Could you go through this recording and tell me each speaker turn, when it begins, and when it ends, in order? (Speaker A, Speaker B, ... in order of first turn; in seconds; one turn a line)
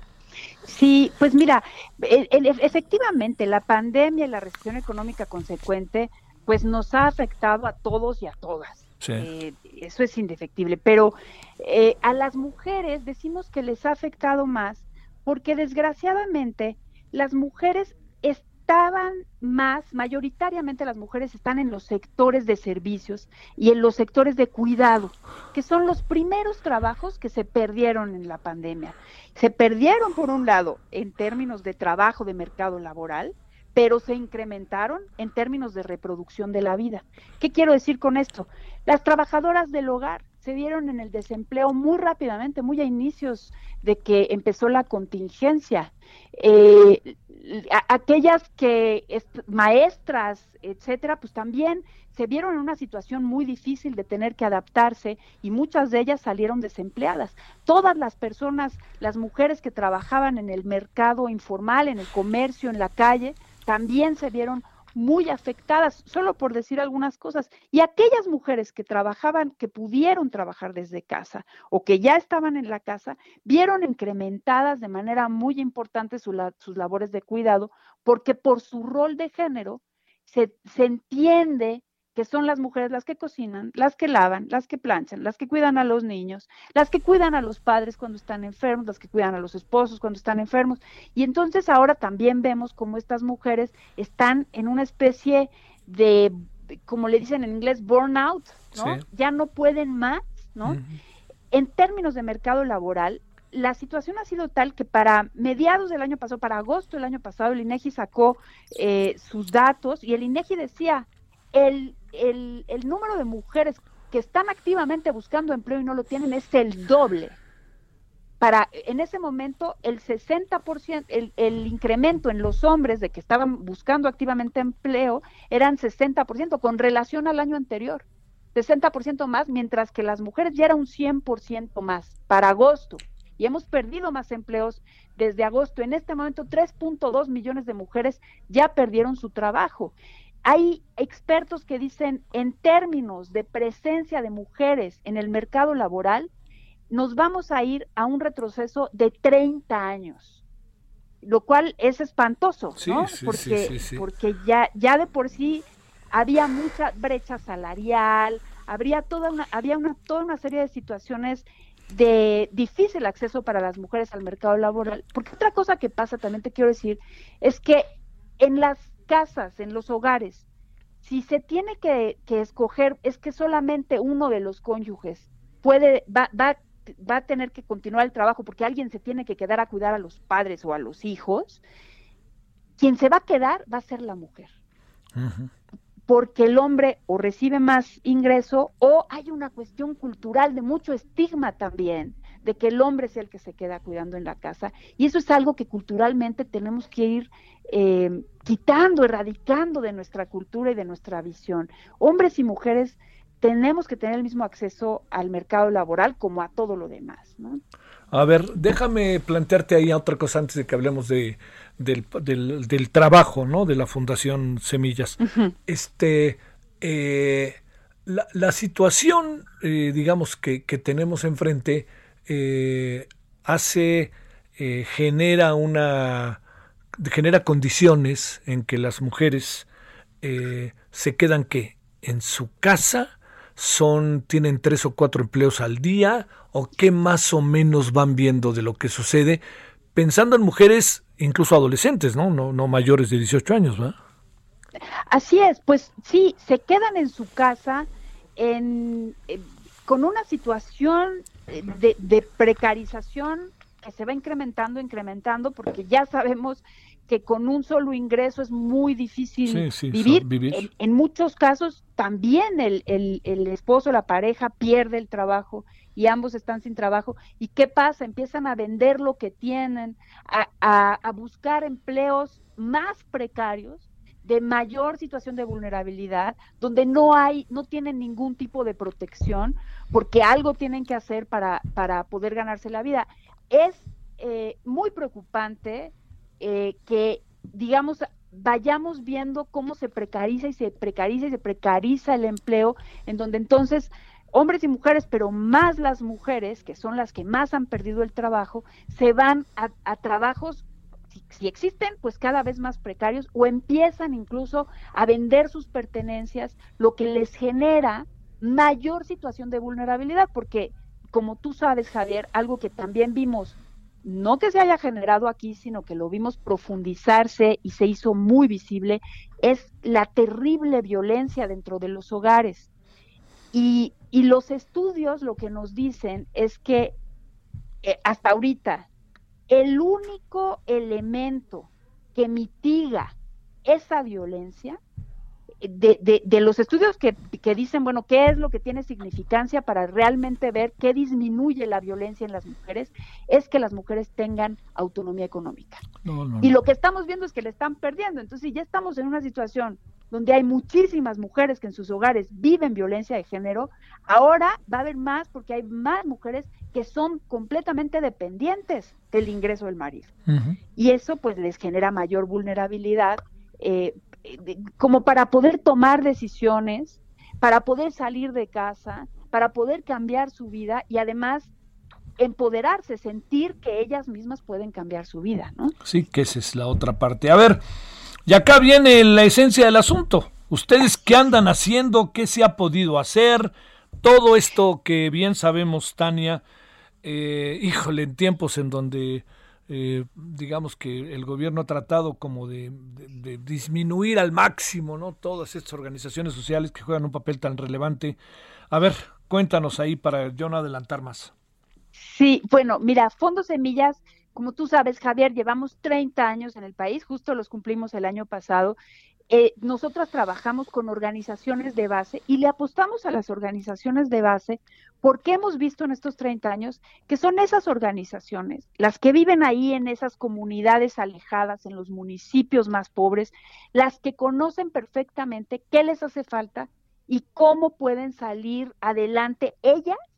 Speaker A: 0.7-100.8
Speaker B: 9.0-9.3
Speaker B: 98.7-99.0
Speaker B: 100.7-101.0
Speaker A: 101.5-117.4
Speaker A: 118.4-146.3
Speaker A: 146.9-150.4
Speaker A: 151.2-167.9
Speaker B: 152.8-154.1
Speaker A: 168.4-170.4
Speaker A: 171.0-181.6
Speaker A: 182.8-184.5
Speaker B: 185.2-185.5
Speaker A: 186.1-207.6
Speaker B: 208.1-226.4
Speaker A: 215.2-215.5
Speaker B: 227.0-229.7
Speaker B: 230.2-239.4
Speaker B: 239.9-243.9
Speaker A: 245.1-322.7
Speaker B: 259.5-260.7
Speaker A: 323.5-327.0
Speaker A: 327.8-328.9
Speaker A: 329.5-333.1
Speaker A: 333.6-334.8
Speaker A: 335.6-345.8
Speaker B: 346.0-346.5
Speaker A: 346.4-360.1
Speaker B: 360.3-360.6
Speaker A: 360.8-371.5
Speaker A: 372.2-375.7
Speaker B: 375.8-377.6
Speaker B: 378.3-386.4
Speaker B: 387.0-398.2
Speaker B: 398.7-401.3
Speaker A: 401.9-408.8
Speaker A: 409.3-430.0